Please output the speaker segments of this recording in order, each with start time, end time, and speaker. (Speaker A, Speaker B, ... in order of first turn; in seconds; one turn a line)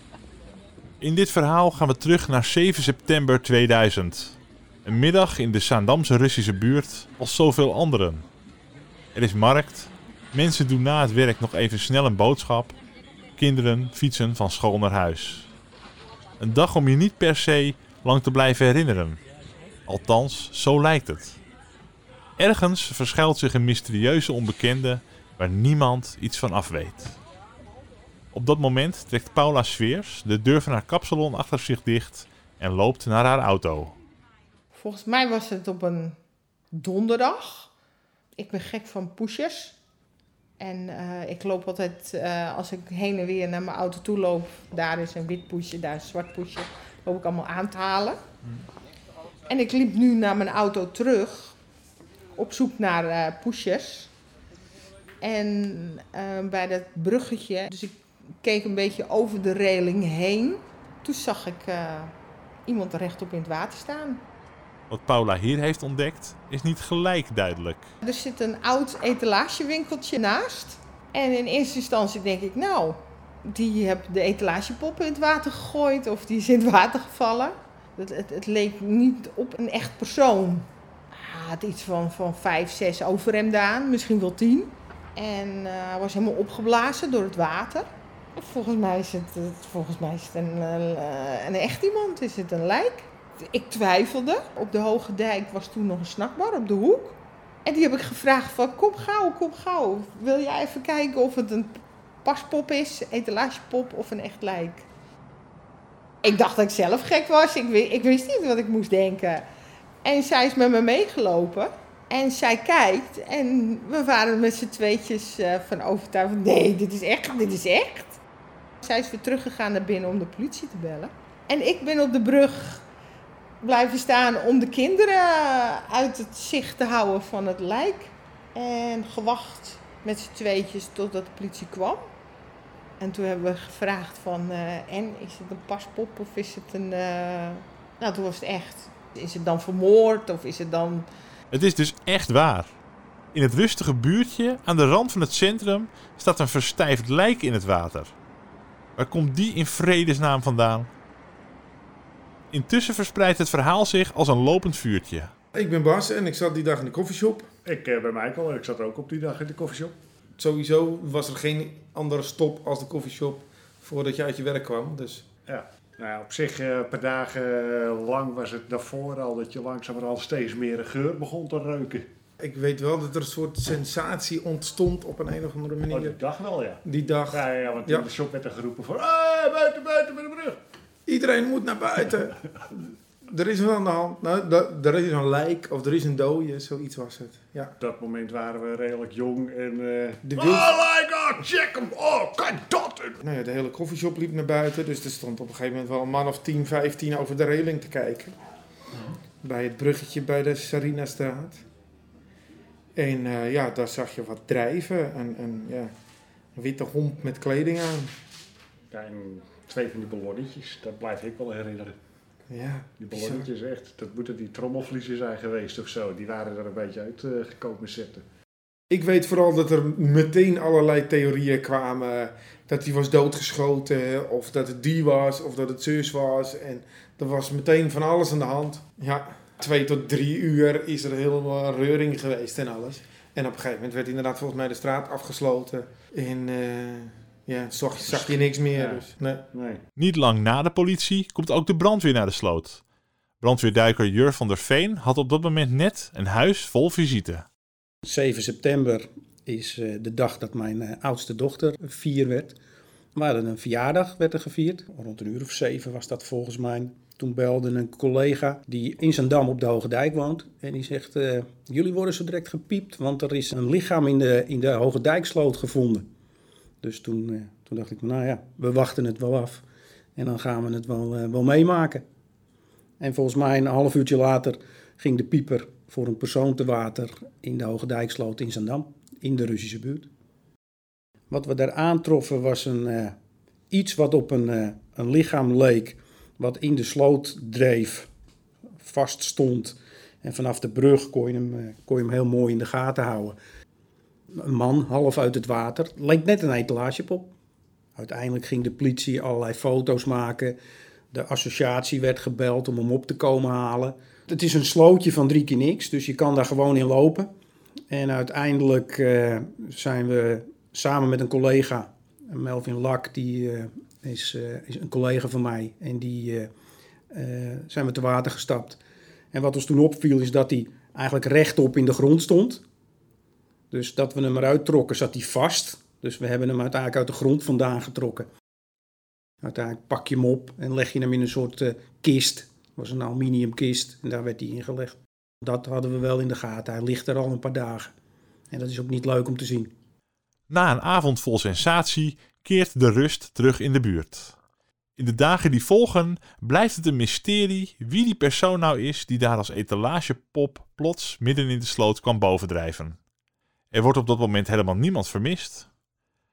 Speaker A: 1.0-8.2
Speaker A: 9.1-12.7
Speaker A: 13.4-15.5
Speaker A: 16.4-19.2
Speaker A: 19.9-21.4
Speaker A: 22.4-27.2
Speaker A: 28.3-33.9
Speaker B: 34.7-36.2
Speaker B: 36.7-37.7
Speaker B: 38.4-39.8
Speaker B: 40.6-48.2
Speaker B: 49.5-51.6
Speaker B: 52.3-54.1
Speaker B: 55.2-62.1
Speaker B: 62.6-64.2
Speaker A: 64.9-67.9
Speaker B: 68.0-104.9
Speaker B: 106.2-109.4
Speaker B: 110.0-118.2
Speaker B: 118.8-122.8
Speaker B: 123.6-132.1
Speaker B: 133.0-141.1
Speaker A: 141.5-142.7
Speaker A: 143.3-148.1
Speaker A: 148.9-150.9
Speaker A: 152.5-155.3
Speaker C: 155.5-157.5
Speaker D: 157.6-159.9
Speaker C: 160.4-165.2
Speaker D: 165.5-172.1
Speaker C: 172.4-176.2
Speaker D: 175.9-180.6
Speaker C: 176.8-178.1
Speaker C: 181.1-187.7
Speaker D: 187.8-193.2
Speaker C: 190.2-190.7
Speaker C: 193.2-198.3
Speaker C: 199.4-201.6
Speaker C: 202.9-205.9
Speaker C: 206.6-208.1
Speaker D: 208.9-211.9
Speaker C: 212.5-213.4
Speaker D: 213.0-218.2
Speaker C: 218.9-239.4
Speaker D: 238.1-239.8
Speaker A: 239.9-242.8
Speaker A: 243.4-247.4
Speaker E: 248.0-252.6
Speaker E: 253.1-266.1
Speaker E: 266.8-269.6
Speaker E: 270.1-272.0
Speaker E: 273.0-280.1
Speaker E: 281.3-283.1
Speaker E: 283.7-288.1
Speaker E: 288.8-293.4
Speaker E: 294.3-297.3
Speaker E: 297.9-300.6
Speaker E: 301.1-307.3
Speaker E: 307.9-316.5
Speaker E: 317.1-318.8
Speaker E: 319.3-322.6
Speaker E: 323.7-328.3
Speaker E: 329.4-337.9
Speaker E: 338.5-339.7
Speaker A: 340.5-344.4
Speaker A: 345.0-353.0
Speaker A: 353.7-355.7